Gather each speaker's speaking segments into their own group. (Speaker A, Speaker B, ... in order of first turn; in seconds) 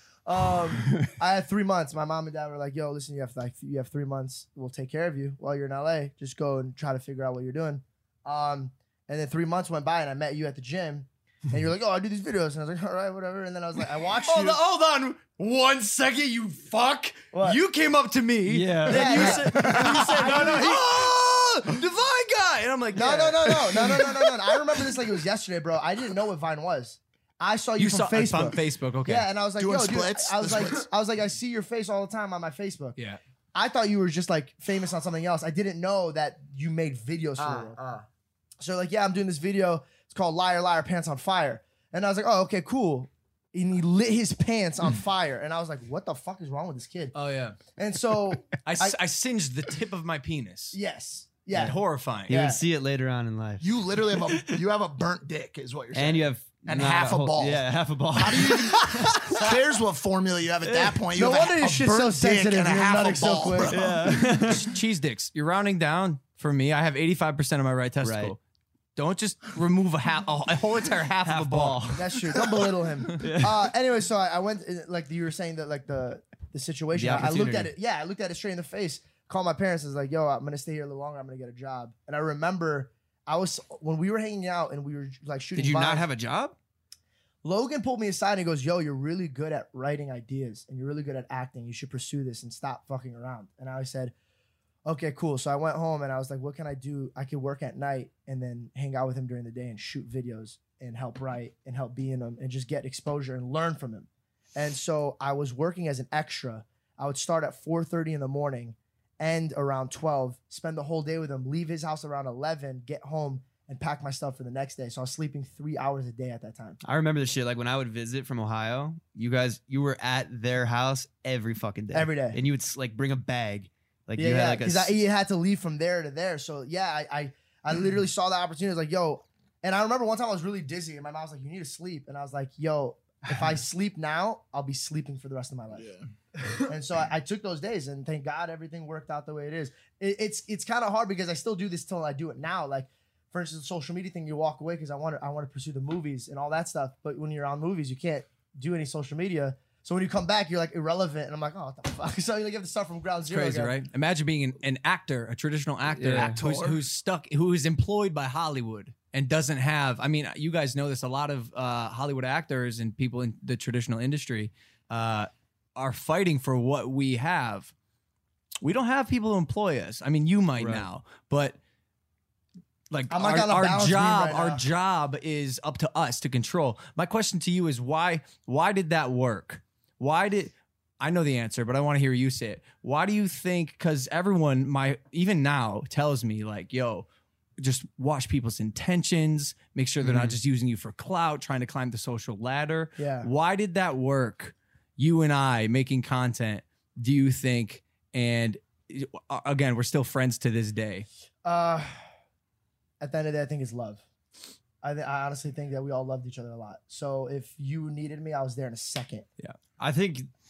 Speaker A: 0.2-14.6, 17.3-17.6, 18.9-21.1, 22.9-33.0, 33.5-38.0, 38.6-47.1, 47.8-49.0, 50.7-52.6, 61.1-63.7, 71.9-86.0, 87.4-94.1, 94.8-116.8, 121.9-122.4, 124.2-135.9, 136.7-153.7, 173.1-174.6, 193.0-193.3, 201.4-202.0, 203.0-204.0, 204.8-209.3
Speaker B: 14.2-24.3, 27.8-29.3, 37.4-37.9, 47.1-47.6, 48.6-50.8, 51.5-52.3, 64.4-68.4, 69.0-71.9, 153.3-167.7, 168.6-171.6, 172.9-187.1, 187.6-201.1
Speaker C: 18.5-19.4, 52.3-53.6, 55.9-59.2, 60.6-61.0, 63.7-64.7, 68.0-68.3, 71.2-72.2, 73.2-73.7, 76.9-77.7, 85.5-86.5, 116.8-125.0, 156.0-156.4, 170.6-170.8, 190.0-190.4, 209.8-210.3
Speaker D: 19.5-20.3, 29.6-30.8, 53.6-64.3, 135.7-136.0, 156.1-156.8